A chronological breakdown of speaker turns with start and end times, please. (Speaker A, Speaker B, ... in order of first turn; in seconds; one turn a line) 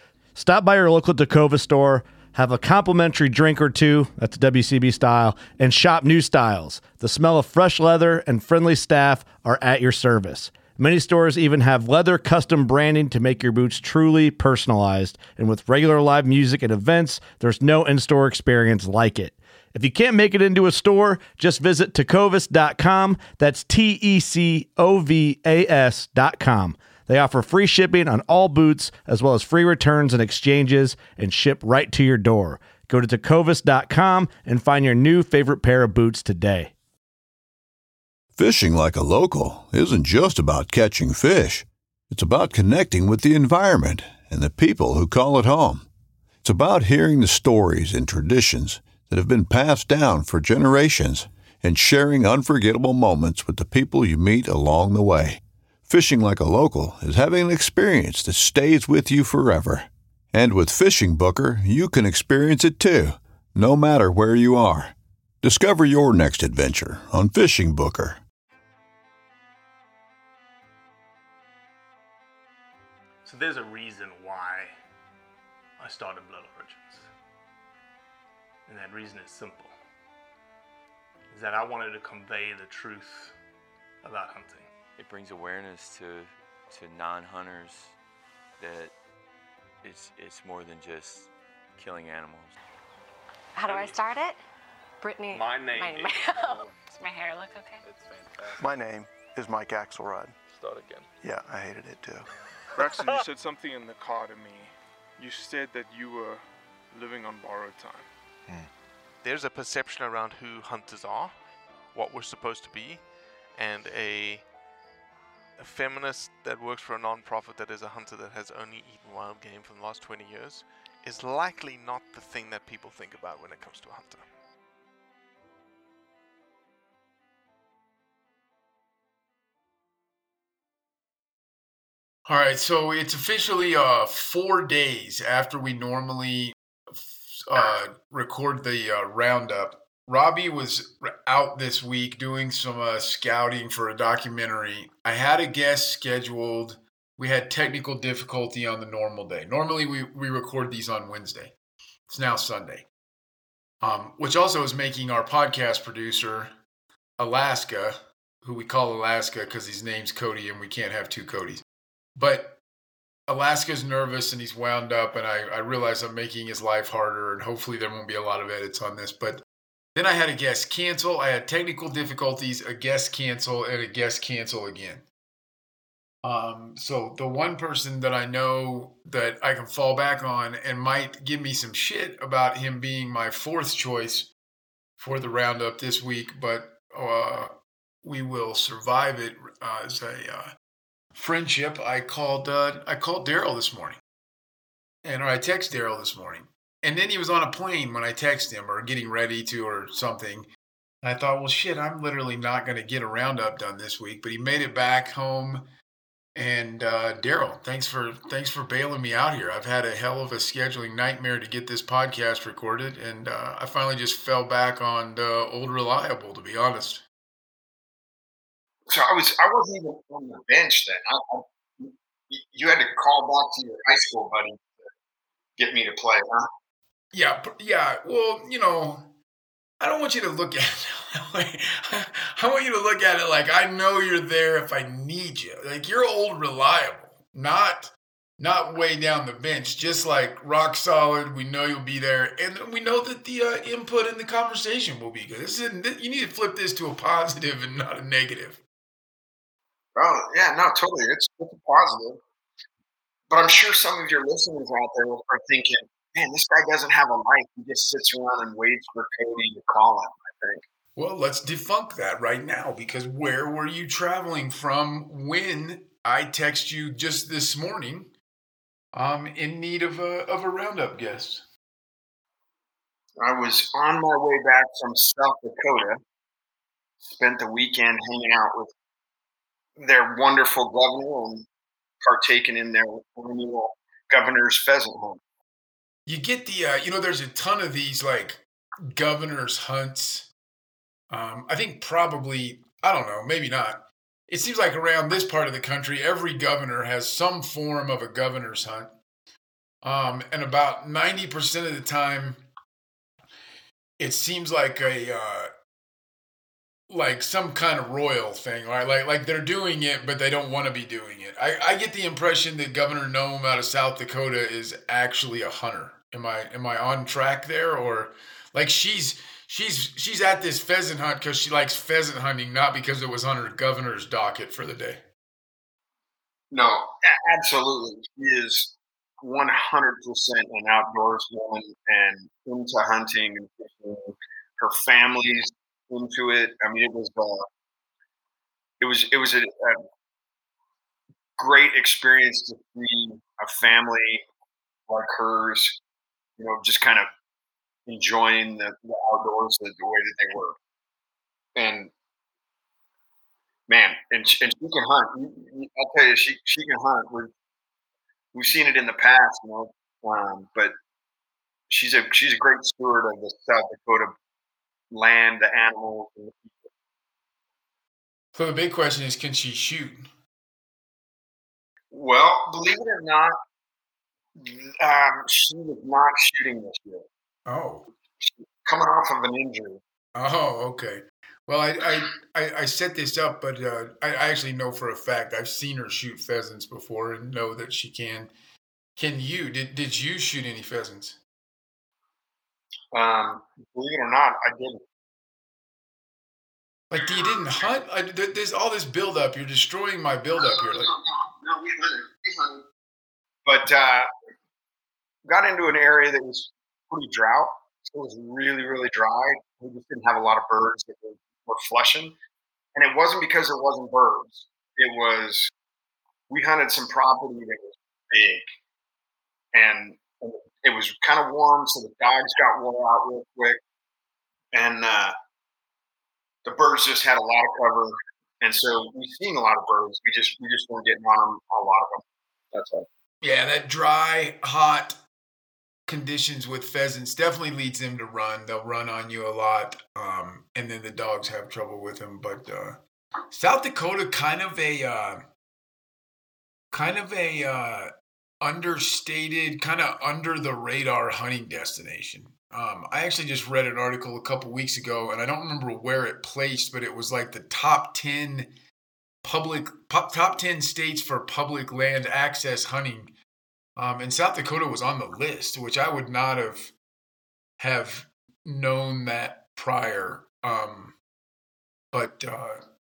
Speaker A: 0.4-36.7
Speaker B: 38.4-45.9
Speaker B: 46.4-68.2
Speaker C: 73.2-74.8
Speaker C: 75.8-77.1
Speaker C: 78.7-79.8
Speaker C: 81.3-83.4
Speaker C: 84.0-84.7
Speaker D: 85.0-88.0
Speaker D: 88.6-89.0
Speaker D: 89.8-92.5
Speaker E: 93.6-94.4
Speaker E: 95.0-97.8
Speaker C: 95.3-96.2
Speaker D: 97.9-98.5
Speaker F: 98.6-100.4
Speaker G: 100.5-101.0
Speaker F: 101.2-102.3
Speaker G: 102.7-108.1
Speaker H: 109.2-111.4
Speaker H: 111.9-114.5
Speaker H: 115.6-124.3
Speaker I: 132.2-151.5
Speaker I: 152.1-152.9
Speaker I: 153.8-156.5
Speaker I: 157.2-161.6
Speaker I: 162.2-162.6
Speaker I: 163.3-169.4
Speaker I: 169.9-175.1
Speaker I: 176.2-184.3
Speaker I: 185.0-187.5
Speaker I: 188.0-190.5
Speaker I: 191.1-194.0
Speaker I: 195.0-200.5
Speaker I: 201.0-205.7
Speaker I: 206.3-217.0
Speaker J: 218.9-224.7
Speaker J: 225.6-226.5
Speaker I: 227.1-229.1
Speaker I: 229.8-248.6
Speaker J: 249.9-252.2
Speaker J: 253.3-260.6
Speaker I: 260.9-268.1
Speaker I: 268.9-271.4
Speaker J: 273.2-276.0
Speaker J: 277.0-278.7
Speaker J: 279.8-281.4
Speaker J: 282.0-285.2
Speaker I: 286.1-290.3
Speaker I: 291.1-298.9
Speaker I: 299.8-302.4
Speaker I: 304.0-305.5
Speaker I: 306.9-325.0
Speaker J: 326.5-337.4
Speaker J: 338.8-339.8
Speaker J: 341.4-344.2
Speaker J: 344.9-345.8
Speaker J: 346.4-347.1
Speaker J: 347.9-350.6
Speaker J: 351.6-351.9
Speaker J: 353.7-357.3
Speaker J: 358.3-360.7
Speaker J: 361.7-364.1
Speaker J: 364.9-366.7
Speaker I: 368.3-370.1
Speaker J: 371.9-373.4
Speaker J: 374.4-377.1
Speaker I: 377.4-377.9
Speaker J: 378.2-379.8
Speaker I: 380.1-388.3
Speaker I: 388.9-391.2
Speaker J: 392.9-394.8
Speaker I: 396.9-400.9
Speaker J: 397.0-397.4
Speaker J: 400.4-402.6
Speaker J: 403.4-404.1
Speaker J: 405.2-412.1
Speaker J: 412.8-415.5
Speaker J: 416.3-418.4
Speaker J: 419.5-423.6
Speaker J: 424.5-425.1
Speaker J: 426.4-432.0
Speaker J: 432.5-432.9
Speaker I: 433.2-435.0
Speaker I: 435.9-442.8
Speaker I: 443.3-445.2
Speaker I: 446.7-447.9
Speaker I: 448.4-458.5
Speaker I: 459.2-463.1
Speaker I: 463.8-466.7
Speaker I: 467.6-470.9
Speaker I: 471.9-472.6